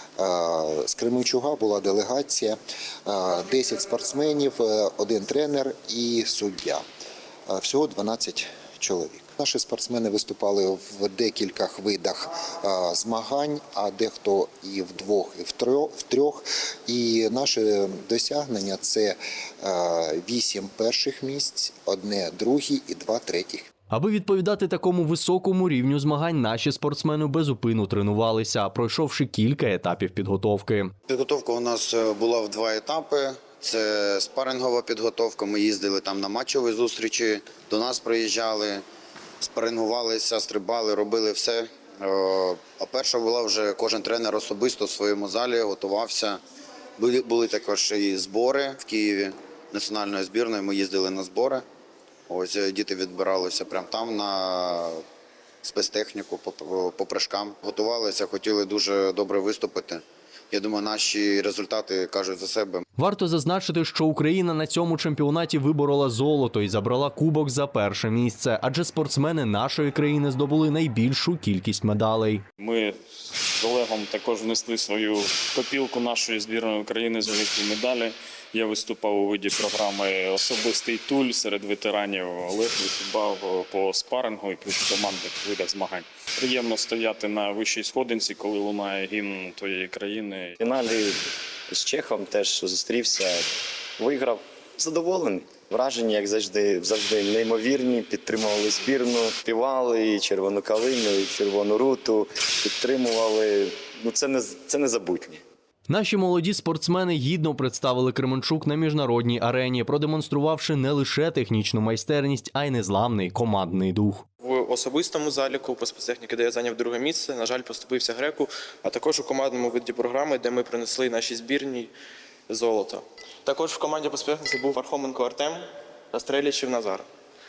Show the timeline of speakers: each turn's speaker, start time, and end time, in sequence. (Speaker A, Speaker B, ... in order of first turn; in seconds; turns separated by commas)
Speaker A: 0.2-6.8, Speaker A: 7.5-23.7, Speaker B: 23.9-30.9, Speaker C: 31.1-38.8, Speaker C: 39.4-46.4, Speaker C: 47.0-51.6, Speaker C: 52.3-55.0, Speaker C: 55.6-62.8, Speaker B: 63.0-72.4, Speaker D: 72.6-90.5, Speaker E: 90.6-105.4, Speaker B: 105.9-114.2, Speaker F: 114.4-121.9, Speaker F: 122.5-127.1